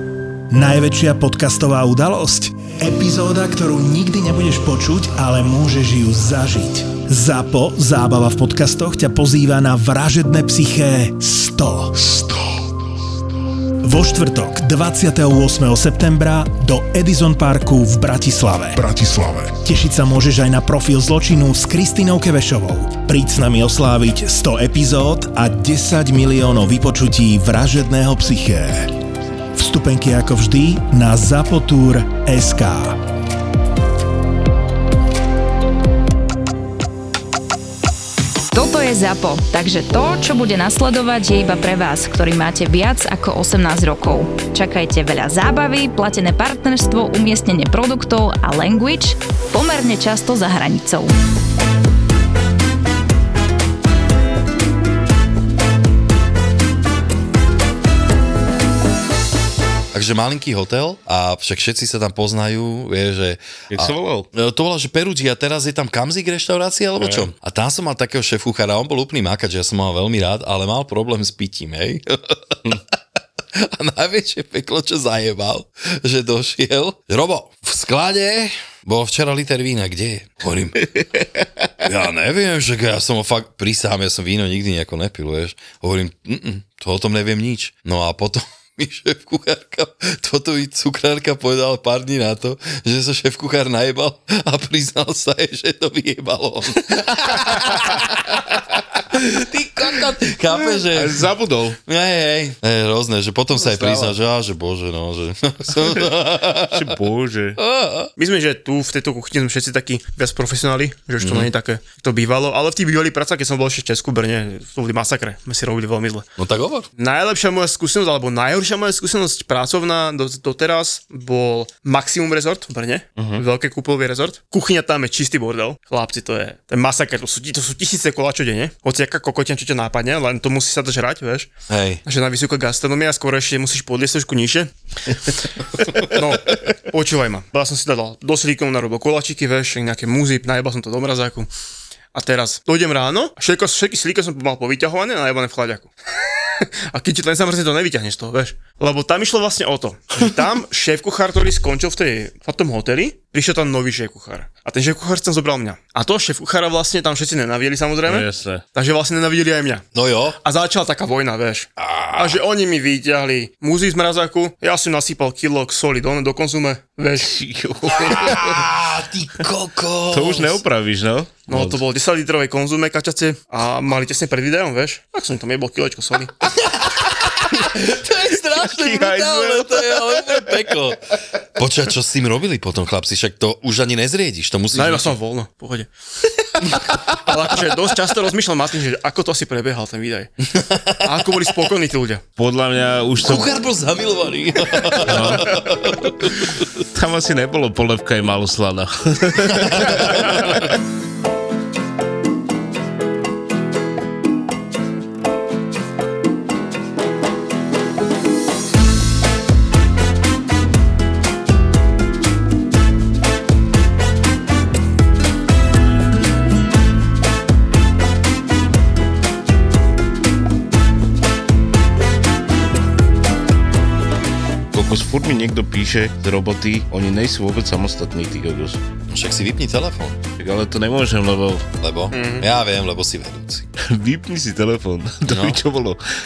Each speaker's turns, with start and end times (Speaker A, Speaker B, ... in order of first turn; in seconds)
Speaker A: 0.5-12.6, 13.8-29.0, 29.5-33.0
Speaker B: 38.5-51.1
Speaker C: 59.9-72.8, 73.5-80.9, 81.8-101.3, 101.8-107.0, 107.6-108.1, 111.2-111.5, 116.4-116.9, 131.7-132.0, 159.9-160.4, 161.8-162.4, 167.9-170.6, 176.6-181.0, 181.6-185.2, 186.6-187.3, 190.4-191.1, 193.2-196.7, 199.5-200.6, 229.1-230.2, 231.8-233.7, 235.2-235.6
Speaker D: 63.7-64.3, 67.0-67.3, 97.4-97.7, 100.7-101.8, 103.6-104.1, 106.6-107.6, 123.2-123.4, 158.1-158.6, 167.2-168.6, 170.1-171.8, 178.6-180.7, 192.4-193.5, 195.0-195.6, 196.9-200.7, 224.7-228.8, 230.4-231.6, 233.8-236.0
Speaker E: 108.2-116.3, 117.0-131.5, 132.0-134.7, 135.8-141.5, 142.1-145.9, 146.5-159.8, 160.4-167.3, 171.5-176.3, 184.7-185.9, 186.8-190.3, 191.0-192.2, 232.1-232.5